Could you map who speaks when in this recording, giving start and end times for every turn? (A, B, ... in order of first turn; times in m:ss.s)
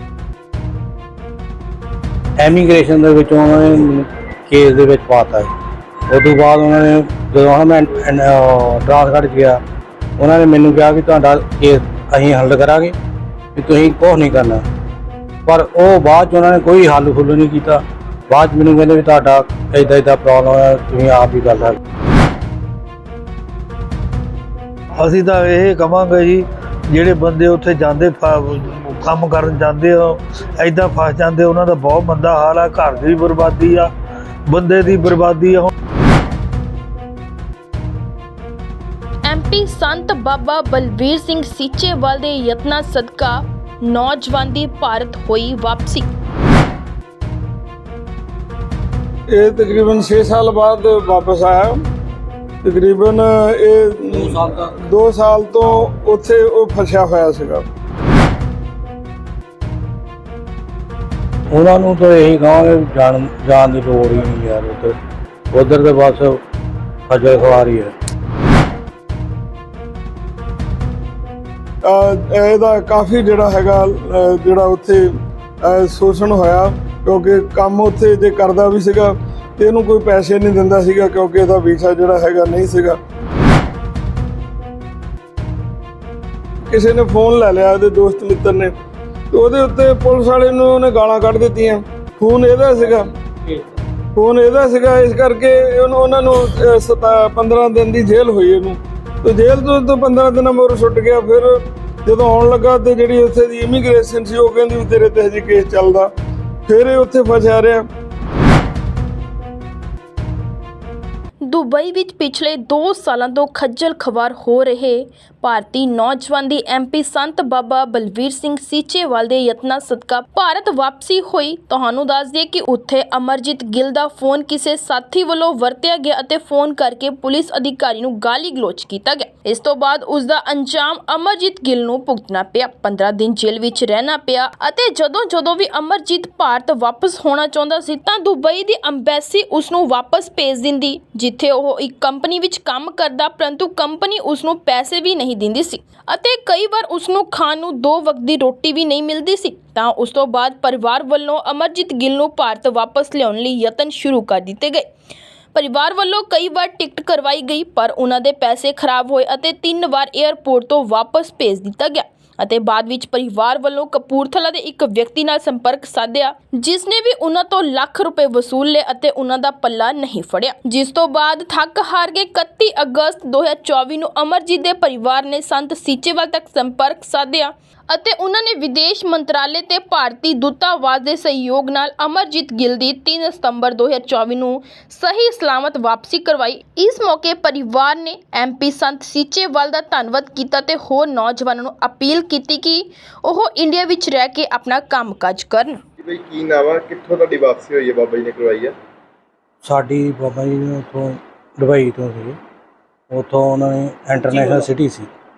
0:02.4-0:05.5 A
0:06.1-0:09.6 A
0:10.2-0:13.0 A
0:13.6-0:14.6 A
0:15.4-0:21.8 A
0:25.0-0:33.9 B
0:34.5-0:35.7 B
0:39.2-0:46.1 C
0:49.3-0:51.8 D
0:52.6-0:57.6 D
0:54.1-0:54.7 A
1:01.5-1:04.9 A
1:05.5-1:06.4 A
1:07.1-1:07.9 A
1:11.8-1:23.0 D
1:26.7-1:28.7 D
1:29.3-1:33.1 D
1:34.1-1:46.1 D
1:46.7-1:47.8 D
1:51.4-2:34.9 C
2:35.5-3:15.8 C
3:16.0-3:18.7 E
3:19.6-3:22.4 A
3:23.1-3:25.1 A